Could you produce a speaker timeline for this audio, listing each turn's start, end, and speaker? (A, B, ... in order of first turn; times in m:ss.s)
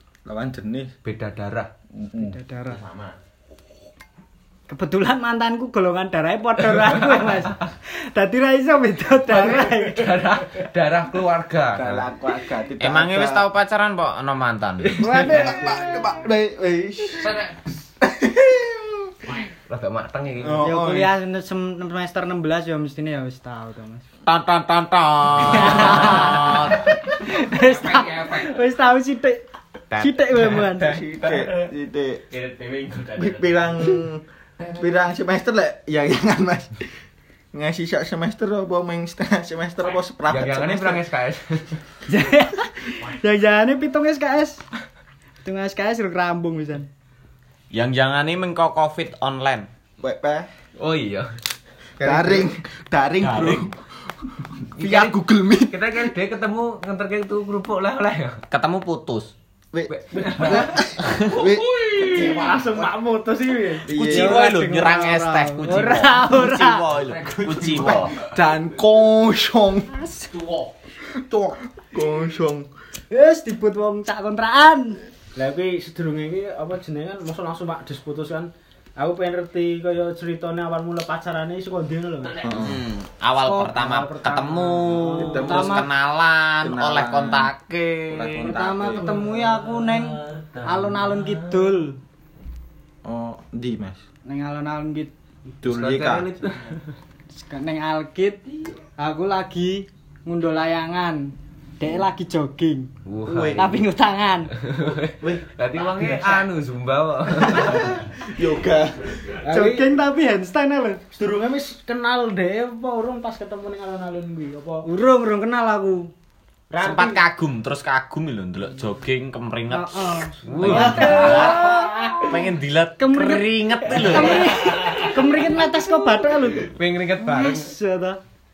0:00.2-0:00.9 A
0:01.0-0:01.7 B
0:01.9-0:02.4 A
0:02.2-0:02.8 C
0:02.7-0:03.2 D
0:04.7-0:10.2 C
0:06.7-0:07.5 B
0:09.7-0:12.0 B
0:11.7-0:13.5 A
0:12.8-0:15.1 D
0:14.9-0:17.5 A
0:15.0-0:15.6 C
0:18.0-0:19.4 A
0:19.7-0:20.6 B
0:20.4-0:21.1 A
0:20.6-0:24.0 C
0:24.2-0:28.5 D
0:25.4-0:29.4 C
0:29.9-0:30.5 D
0:30.0-0:31.0 C
0:30.6-0:31.5 B
0:30.8-0:32.2 A
0:32.3-0:33.8 D
0:33.2-0:36.9 A
0:37.5-0:41.0 A
0:40.3-0:41.8 B
0:42.1-0:44.6 C
0:45.4-0:46.9 C
0:47.7-0:49.7 D
0:50.0-0:50.5 A
0:50.8-0:51.3 B
0:52.0-0:52.5 B
0:52.0-0:56.1 A
0:54.8-0:58.4 B
0:58.5-0:59.3 D
0:59.7-1:01.7 A
0:59.9-1:02.4 B
1:00.2-1:00.8 E
1:01.3-1:03.9 E
1:03.8-1:04.4 A
1:03.9-1:08.2 D
1:03.9-1:06.9 C
1:07.5-1:09.9 A
1:09.9-1:10.6 C
1:11.1-1:12.7 A
1:13.1-1:15.0 C
1:15.3-1:22.5 E
1:22.4-1:22.8 A
1:22.4-1:31.7 D
1:23.4-1:23.9 C
1:23.6-1:25.6 E
1:25.2-1:25.9 A
1:25.2-1:25.9 C
1:26.6-1:27.5 A
1:28.1-1:29.2 A
1:28.4-1:32.0 C
1:33.0-1:34.0 A
1:34.2-1:35.1 C
1:35.6-1:36.3 A
1:35.6-1:36.8 B
1:37.3-1:38.4 C
1:39.0-1:42.9 C
1:43.0-1:43.8 B
1:43.2-1:43.8 A
1:43.6-1:44.5 C
1:44.6-1:48.0 B
1:47.5-1:49.4 A
1:49.4-1:49.9 E
1:49.5-1:51.0 C
1:51.1-1:54.8 E
1:54.8-1:56.1 C
1:56.7-1:57.2 E
1:56.8-2:01.7 D
1:59.7-2:02.4 C
2:00.4-2:01.5 B
2:00.7-2:02.3 E
2:02.2-2:04.7 D
2:03.0-2:08.2 C
2:04.4-2:05.2 E
2:06.6-2:07.7 B